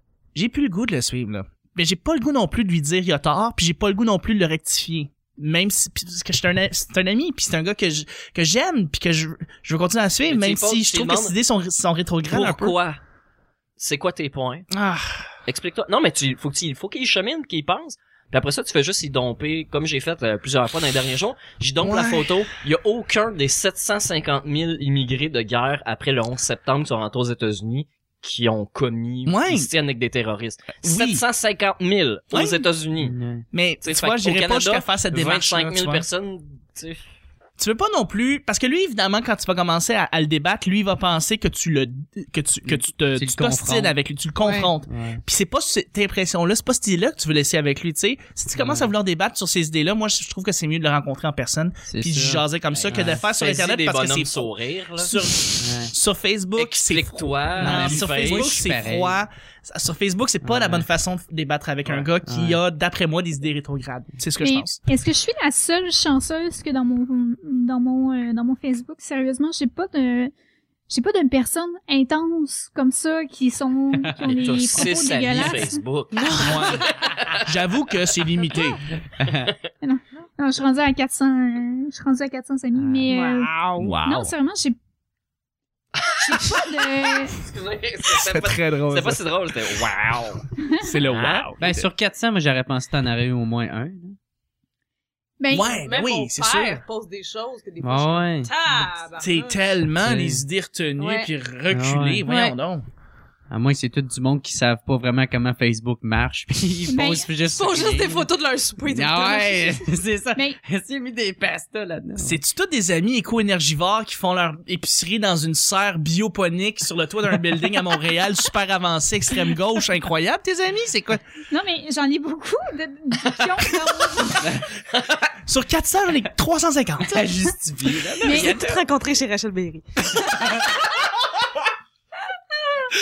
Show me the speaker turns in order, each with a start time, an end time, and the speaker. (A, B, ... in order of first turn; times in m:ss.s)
0:00.3-0:12.7 A
0:10.3-0:11.3 B
0:12.3-0:13.0 B
0:13.8-0:14.7 B
0:14.7-0:15.3 A
0:15.4-0:33.2 B
0:21.8-0:22.4 A
0:29.3-0:29.7 A
0:30.8-0:31.2 A
0:32.3-0:32.6 A
0:33.0-0:33.4 C
0:33.5-0:36.0 A
0:33.8-0:37.0 B
0:37.6-1:04.8 A
0:42.7-0:43.9 C
0:44.4-0:44.7 D
0:44.9-0:45.2 C
0:48.6-0:48.9 C
0:51.9-0:53.2 C
0:52.7-0:55.1 B
0:55.6-0:55.9 C
0:56.6-0:58.5 B
0:57.6-0:59.2 C
1:00.4-1:00.8 C
1:02.3-1:02.6 C
1:04.4-1:10.3 E
1:10.9-1:15.8 E
1:14.2-1:17.4 B
1:16.1-1:16.9 D
1:16.4-1:18.8 A
1:19.2-1:19.5 C
1:19.3-1:19.5 B
1:19.8-1:24.8 E
1:22.8-1:23.1 C
1:23.1-1:23.9 D
1:23.8-1:24.3 A
1:26.0-1:30.4 B
1:26.2-1:27.4 E
1:28.1-1:29.2 A
1:30.6-1:30.9 E
1:30.8-1:31.9 A
1:31.0-1:31.5 B
1:31.6-1:34.2 C
1:35.4-1:35.7 E
1:35.5-1:36.8 A
1:35.6-1:39.6 D
1:37.8-1:38.5 C
1:39.2-1:42.8 A
1:40.0-1:40.4 C
1:41.0-1:41.3 D
1:41.7-1:42.3 C
1:42.2-1:42.6 D
1:43.5-1:48.3 C
1:46.9-1:47.3 E
1:47.4-1:49.9 D
1:48.9-1:52.4 C
1:52.2-2:01.2 A
2:01.5-2:04.5 E
2:03.9-2:04.5 A
2:05.4-2:08.0 A
2:07.0-2:08.6 C
2:08.2-2:10.8 D
2:08.2-2:08.6 E